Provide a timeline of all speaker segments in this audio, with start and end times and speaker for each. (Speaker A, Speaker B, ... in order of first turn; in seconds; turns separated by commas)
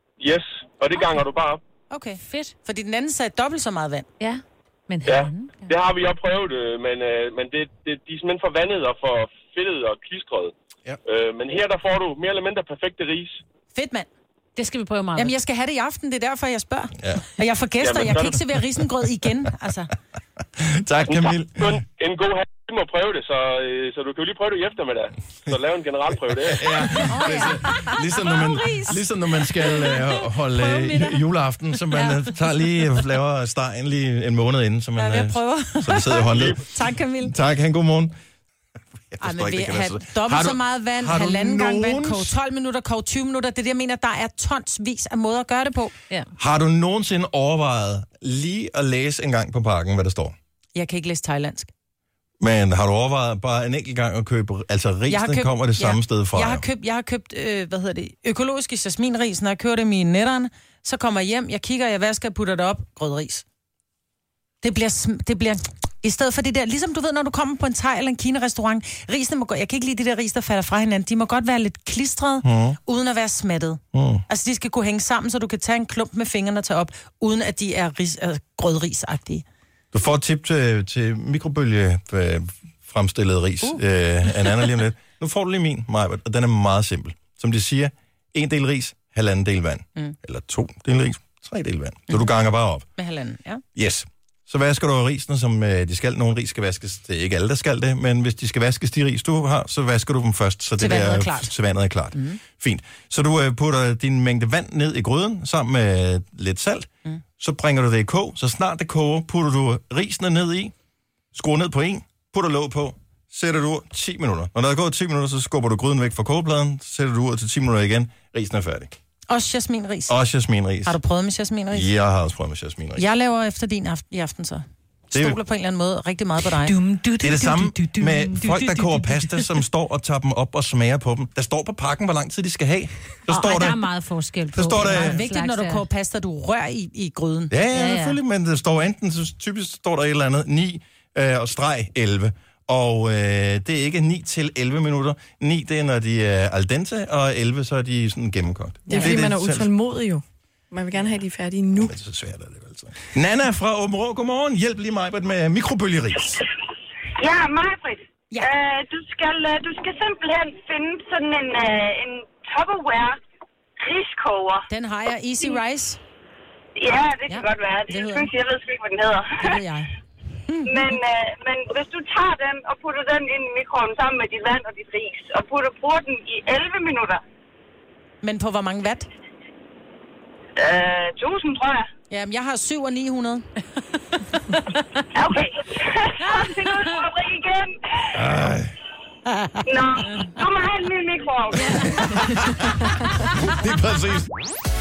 Speaker A: 0.2-1.6, Speaker B: 1.9-4.1, Speaker C: 2.2-2.5, Speaker C: 4.2-5.3, Speaker A: 5.1-10.5, Speaker A: 11.1-13.4, Speaker B: 13.7-14.1, Speaker C: 14.6-15.3, Speaker B: 15.2-19.9, Speaker A: 17.8-18.4, Speaker D: 20.6-21.7, Speaker A: 21.1-27.0, Speaker D: 26.5-38.1, Speaker B: 27.0-27.7, Speaker C: 27.8-28.8, Speaker C: 30.6-31.2, Speaker B: 35.0-37.3, Speaker D: 39.1-42.3, Speaker B: 39.2-46.0, Speaker D: 46.4-50.4, Speaker B: 50.8-51.7, Speaker D: 52.4-56.6, Speaker B: 55.1-63.4, Speaker B: 64.6-79.4, Speaker D: 72.4-72.8, Speaker D: 73.9-74.2, Speaker D: 79.9-92.9, Speaker B: 93.0-93.6, Speaker D: 93.8-110.7, Speaker B: 100.8-101.5, Speaker B: 102.1-102.4, Speaker D: 111.3-118.9, Speaker B: 119.3-120.2, Speaker D: 120.1-121.0, Speaker B: 120.8-121.9, Speaker D: 121.7-123.0, Speaker B: 123.0-126.8, Speaker D: 125.1-125.4, Speaker C: 126.7-129.6, Speaker D: 127.2-133.8, Speaker C: 133.3-135.9, Speaker D: 134.5-135.2, Speaker B: 134.8-137.5, Speaker D: 137.5-149.8, Speaker C: 137.7-138.2, Speaker E: 148.9-151.9, Speaker D: 151.8-156.4, Speaker F: 157.2-163.2, Speaker F: 163.8-164.7, Speaker B: 164.7-166.0, Speaker F: 166.8-169.5, Speaker B: 167.3-168.3, Speaker B: 169.4-169.9, Speaker B: 170.5-170.9, Speaker F: 170.7-177.2, Speaker B: 178.2-179.1, Speaker F: 180.6-181.9, Speaker B: 182.1-183.4, Speaker F: 185.1-188.1, Speaker D: 188.1-188.7, Speaker F: 189.7-192.1, Speaker D: 191.8-194.3